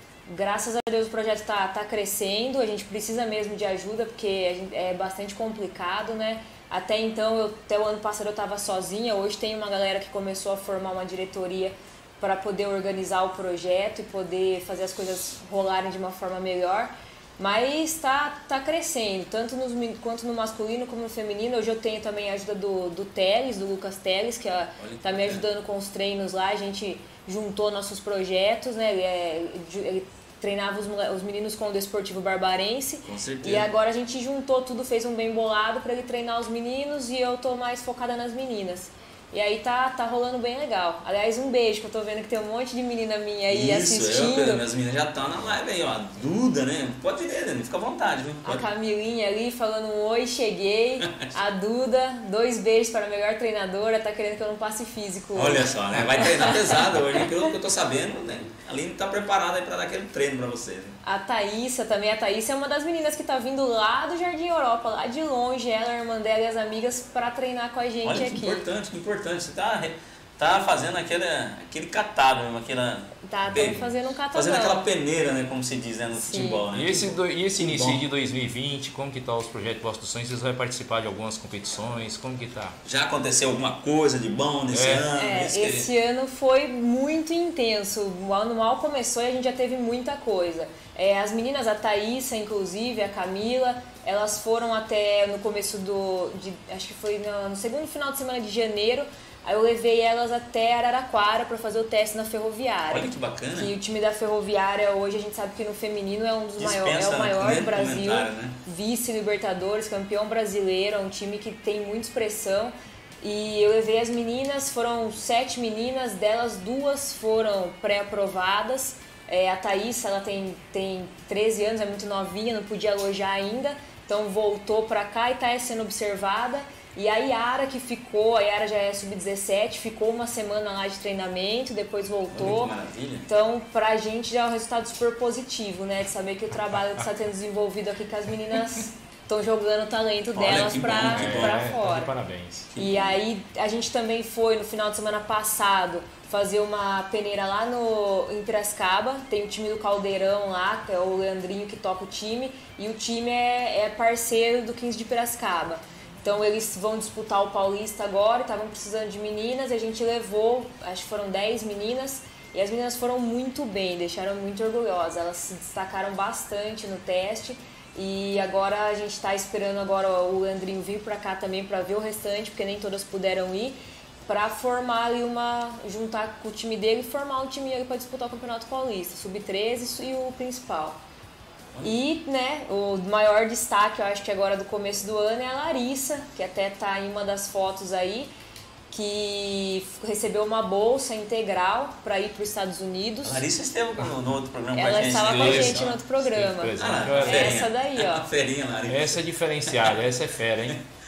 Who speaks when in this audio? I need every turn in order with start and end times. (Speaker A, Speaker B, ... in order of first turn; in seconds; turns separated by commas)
Speaker A: 0.3-44.6, Speaker B: 24.8-25.4, Speaker B: 33.0-33.7, Speaker B: 43.5-48.6, Speaker A: 48.4-56.6, Speaker B: 55.4-61.0, Speaker A: 61.0-68.7, Speaker B: 68.0-78.0, Speaker A: 73.2-74.8, Speaker C: 73.5-73.8, Speaker A: 76.2-76.7, Speaker C: 76.7-82.8, Speaker B: 82.8-85.9, Speaker C: 84.7-85.1, Speaker A: 85.2-132.7, Speaker B: 102.9-103.7, Speaker B: 106.6-108.6, Speaker B: 132.3-133.3, Speaker A: 133.3-142.1, Speaker B: 140.3-141.6, Speaker C: 141.1-142.7, Speaker B: 142.7-143.2, Speaker A: 142.8-181.0, Speaker A: 181.8-188.3, Speaker A: 188.9-193.4, Speaker B: 193.2-196.0, Speaker A: 194.7-198.3, Speaker C: 195.0-197.6, Speaker B: 196.8-199.9, Speaker C: 198.9-200.8